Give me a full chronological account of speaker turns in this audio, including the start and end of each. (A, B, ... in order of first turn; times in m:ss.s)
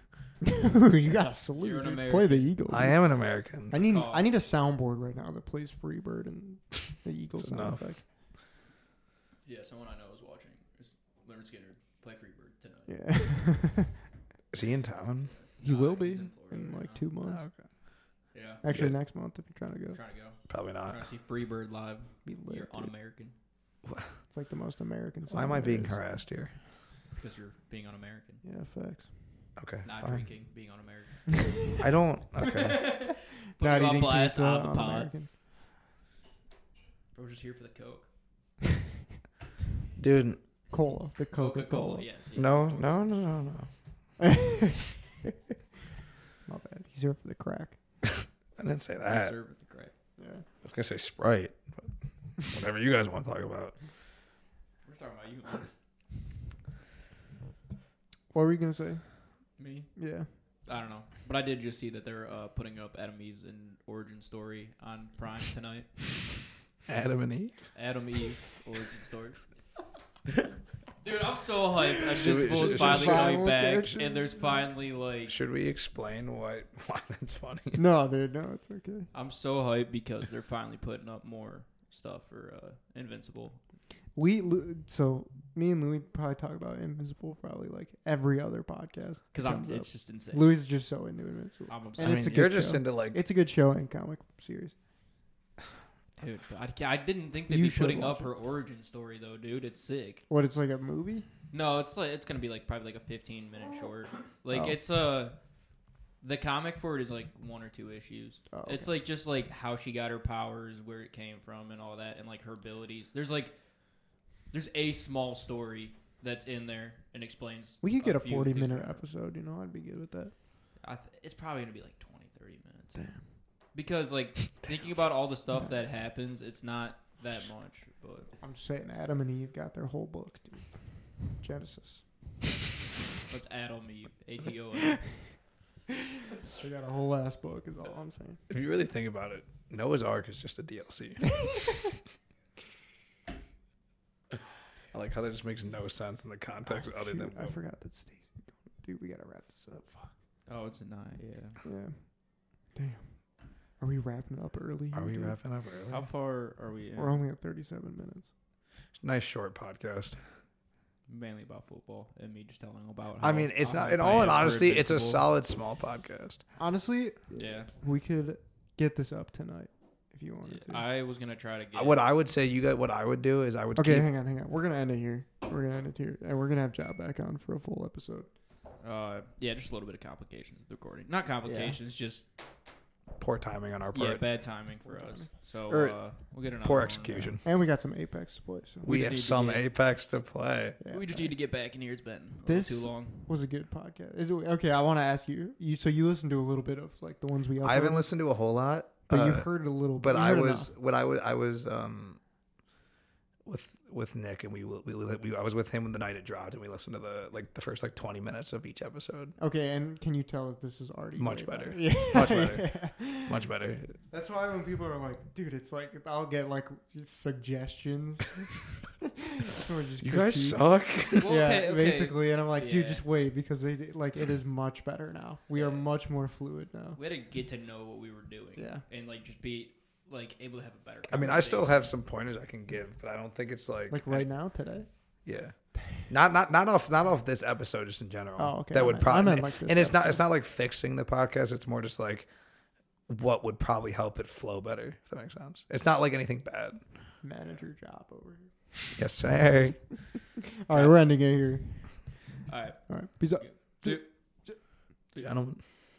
0:00.4-0:03.1 A
0:01.6-0:02.5 B
0:02.7-0:03.7 C
0:03.7-0:08.0 A
0:03.7-0:04.2 B
0:07.4-0:07.9 C
0:09.4-0:12.9 B
0:12.9-0:14.0 A
0:14.5-0:15.3 C
0:14.9-0:17.1 B
0:15.6-0:17.4 A
0:17.2-0:17.7 C
0:18.3-0:18.6 B
0:18.6-0:20.0 A
0:18.6-0:18.9 C
0:19.9-0:23.3 B
0:20.5-0:21.0 C
0:22.2-0:22.9 A
0:24.3-0:26.0 A
0:25.3-0:26.5 C
0:27.1-0:28.4 B
0:28.4-0:29.1 A
0:29.6-0:30.3 C
0:29.8-0:31.8 B
0:31.8-0:32.8 C
0:32.4-0:35.1 B
0:33.6-0:35.3 A
0:37.1-0:38.1 B
0:40.0-0:40.4 C
0:40.7-0:42.1 A
0:41.4-0:43.2 B
0:42.4-0:43.7 C
0:44.2-0:45.3 A
0:46.5-0:47.8 A
0:48.6-0:49.3 C
0:49.0-0:49.9 B
0:50.2-0:50.4 A
0:50.6-0:51.9 C
0:52.4-0:53.7 C
0:54.8-0:55.7 B
0:58.3-0:59.0 A
0:59.6-0:59.9 B
1:00.0-1:00.3 A
1:00.6-1:06.1 B
1:06.8-1:07.6 C
1:07.7-1:09.4 B
1:11.0-1:15.3 B
1:12.1-1:13.4 C
1:12.6-1:14.6 A
1:15.3-1:17.8 C
1:17.7-1:19.1 A
1:19.1-1:23.6 B
1:24.2-1:34.7 A
1:29.3-1:30.5 B
1:31.7-1:32.3 B
1:32.0-1:33.2 C
1:36.2-1:40.2 B
1:37.5-1:38.3 A
1:40.3-1:41.3 A
1:41.5-1:45.4 B
1:44.5-1:44.8 A
1:46.2-1:53.6 B
1:48.5-1:48.9 A
1:54.5-1:59.0 B
1:57.8-2:00.3 A
2:00.8-2:03.0 B
2:03.7-2:08.3 B
2:08.4-2:12.2 A
2:13.3-2:15.1 B
2:16.5-2:18.4 A
2:18.5-2:21.4 C
2:24.9-2:27.6 C
2:26.6-2:30.1 A
2:30.5-2:31.6 B
2:31.6-2:32.1 A
2:32.7-2:33.1 A
2:33.8-2:35.3 A
2:34.9-2:36.0 C
2:35.9-2:37.2 B
2:37.0-2:38.3 A
2:39.0-2:40.2 C
2:41.1-2:45.2 B
2:43.2-2:46.4 C
2:46.6-2:50.8 A
2:47.3-2:47.7 B
2:50.4-2:52.0 B
2:51.7-2:54.1 C
2:53.8-2:58.3 A
2:58.8-3:02.3 B
3:01.4-3:01.8 A
3:03.2-3:04.2 C
3:03.9-3:07.4 B
3:04.8-3:05.3 A
3:05.7-3:06.0 C
3:06.6-3:07.4 C
3:07.4-3:08.8 A
3:08.8-3:10.8 C
3:08.8-3:09.6 B
3:10.8-3:11.3 A
3:10.9-3:13.3 B
3:12.4-3:18.1 A
3:17.6-3:22.2 C
3:19.1-3:20.7 A
3:23.4-3:29.3 C
3:29.4-3:33.4 A
3:31.2-3:34.0 C
3:34.1-3:47.0 A
3:40.0-3:41.3 C
3:41.2-3:43.0 B
3:45.5-3:45.8 B
3:47.0-3:51.9 B
3:48.6-3:48.8 A
3:51.1-3:54.2 C
3:53.9-3:54.9 A
3:55.2-3:55.5 C
3:56.1-4:02.3 C
3:58.4-4:00.2 A
4:03.1-4:06.8 C
4:07.2-4:09.0 A
4:09.0-4:09.8 C
4:10.6-4:12.0 A
4:12.5-4:12.8 B
4:12.9-4:14.6 A
4:13.3-4:14.1 B
4:15.2-4:15.6 C